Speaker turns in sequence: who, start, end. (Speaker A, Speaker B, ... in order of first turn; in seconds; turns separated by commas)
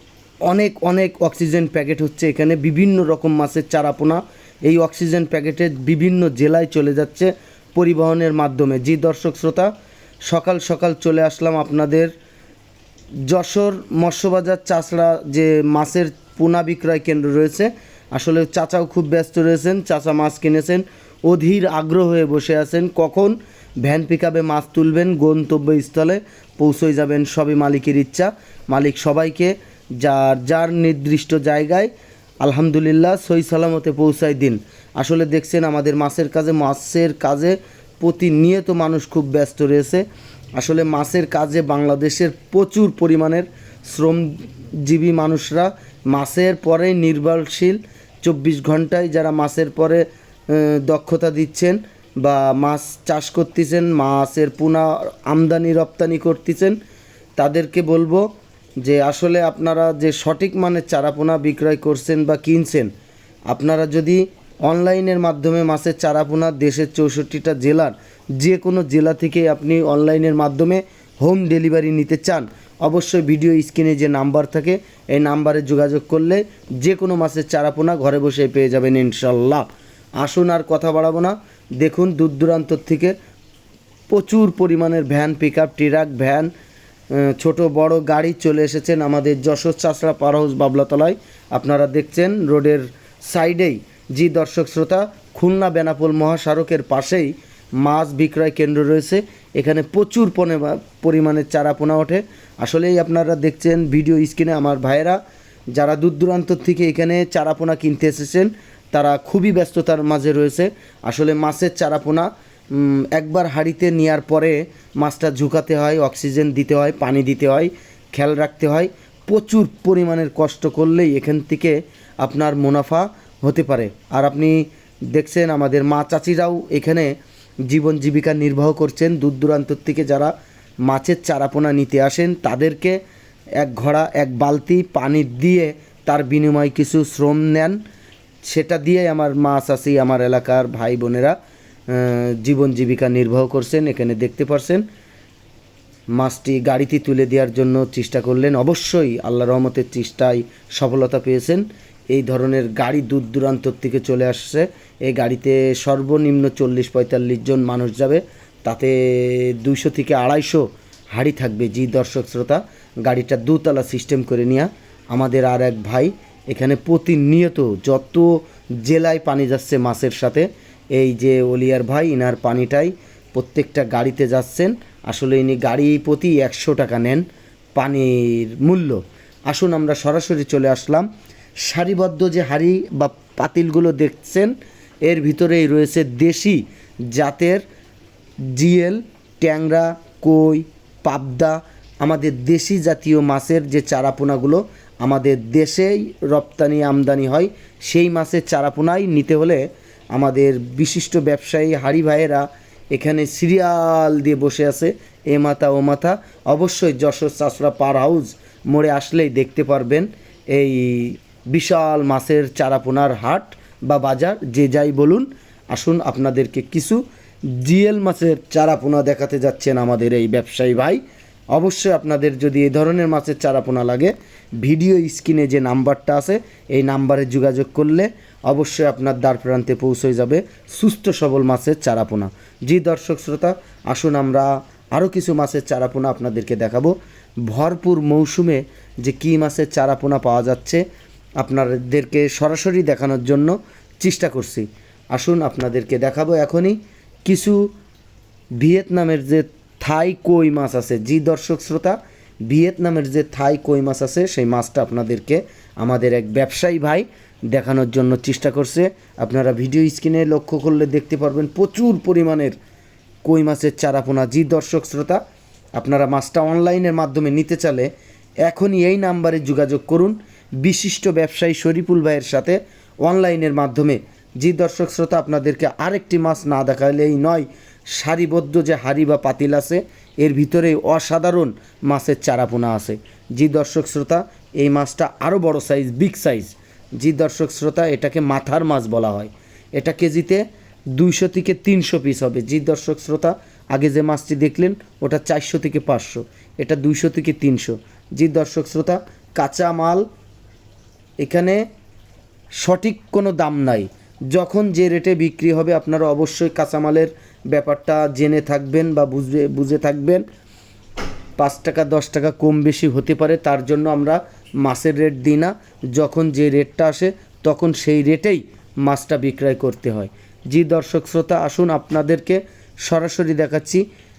Speaker A: 0.5-9.7, Speaker A: 10.3-12.1, Speaker A: 13.3-31.9, Speaker A: 32.4-40.0, Speaker A: 40.6-56.8, Speaker A: 57.4-58.2, Speaker A: 58.8-62.9, Speaker A: 63.5-79.7, Speaker A: 80.2-83.2, Speaker A: 84.1-86.5, Speaker A: 87.1-105.2, Speaker A: 105.7-127.2, Speaker A: 127.7-130.3, Speaker A: 130.9-133.0, Speaker A: 133.6-137.8, Speaker A: 138.4-141.4, Speaker A: 141.9-144.8, Speaker A: 146.1-181.1, Speaker A: 181.6-184.5, Speaker A: 185.1-187.6, Speaker A: 188.5-221.0, Speaker A: 221.5-236.9, Speaker A: 237.5-240.8, Speaker A: 241.4-247.7, Speaker A: 248.6-262.6, Speaker A: 263.2-265.2, Speaker A: 265.8-267.9, Speaker A: 268.4-300.1, Speaker A: 301.2-301.6, Speaker A: 302.6-310.2, Speaker A: 311.4-323.8